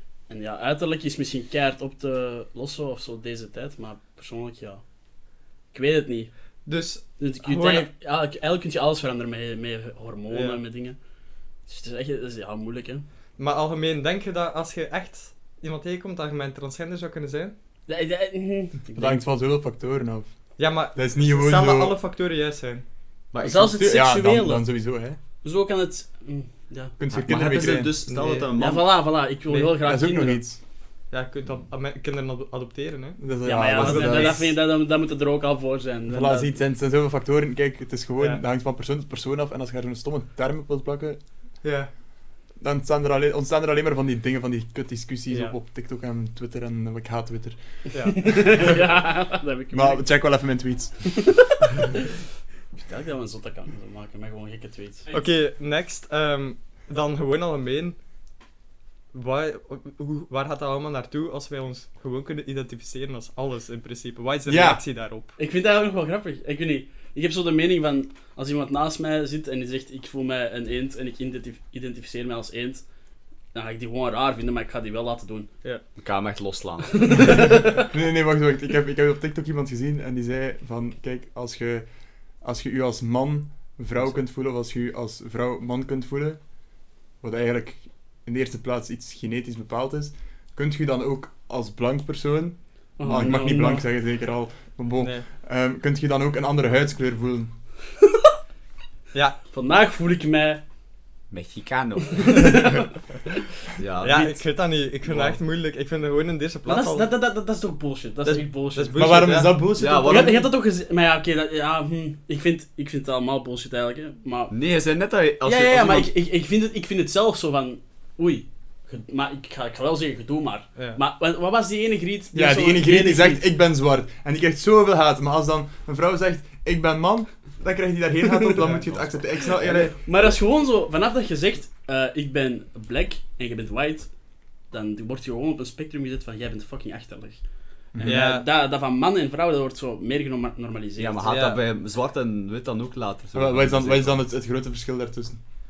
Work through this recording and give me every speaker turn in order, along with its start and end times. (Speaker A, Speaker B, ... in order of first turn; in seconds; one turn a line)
Speaker A: 0.3-4.8
Speaker A: 5.7-6.3
Speaker B: 6.7-7.9
Speaker A: 7.2-10.9
Speaker B: 10.3-10.6
Speaker A: 11.7-13.0
Speaker B: 13.4-17.5
Speaker A: 17.9-19.2
Speaker C: 18.9-20.3
Speaker B: 20.6-22.8
Speaker C: 20.8-22.0
Speaker D: 23.3-23.8
Speaker A: 23.4-24.6
Speaker C: 23.6-25.2
Speaker A: 25.4-26.9
Speaker C: 27.0-27.9
Speaker D: 27.1-28.9
Speaker B: 28.1-28.5
Speaker A: 28.5-30.4
Speaker B: 29.5-29.8
Speaker C: 29.8-30.6
Speaker B: 31.1-34.5
Speaker C: 33.2-34.5
Speaker A: 33.4-36.5
Speaker C: 36.1-41.2
Speaker B: 41.6-41.9
Speaker C: 42.6-47.6
Speaker B: 45.3-45.6
Speaker B: 47.9-48.4
Speaker A: 48.1-50.1
Speaker C: 49.7-51.1
Speaker A: 52.8-55.1
Speaker B: 55.1-58.0
Speaker B: 59.1-65.4
Speaker C: 64.5-64.8
Speaker A: 65.4-72.8
Speaker A: 73.5-75.6
Speaker D: 76.0-77.5
Speaker A: 77.0-77.8
Speaker C: 77.1-81.9
Speaker C: 82.4-86.4
Speaker C: 87.2-97.5
Speaker A: 93.0-93.8
Speaker B: 95.0-95.2
Speaker B: 99.1-99.4
Speaker A: 99.5-100.6
Speaker D: 101.3-102.6
Speaker A: 102.0-103.3
Speaker D: 103.8-104.3
Speaker B: 104.0-107.1
Speaker A: 104.1-104.4
Speaker D: 105.0-105.4
Speaker A: 106.7-109.0
Speaker B: 108.2-110.3
Speaker C: 108.9-110.2
Speaker D: 109.8-110.5
Speaker A: 110.0-114.5
Speaker D: 114.5-116.1
Speaker A: 115.4-123.5
Speaker B: 120.8-121.0
Speaker C: 122.3-130.1
Speaker A: 129.6-134.1
Speaker A: 134.7-137.4
Speaker C: 137.9-138.3
Speaker A: 138.0-141.3
Speaker B: 138.0-138.5
Speaker D: 141.0-144.2
Speaker B: 141.3-141.6
Speaker C: 143.3-145.4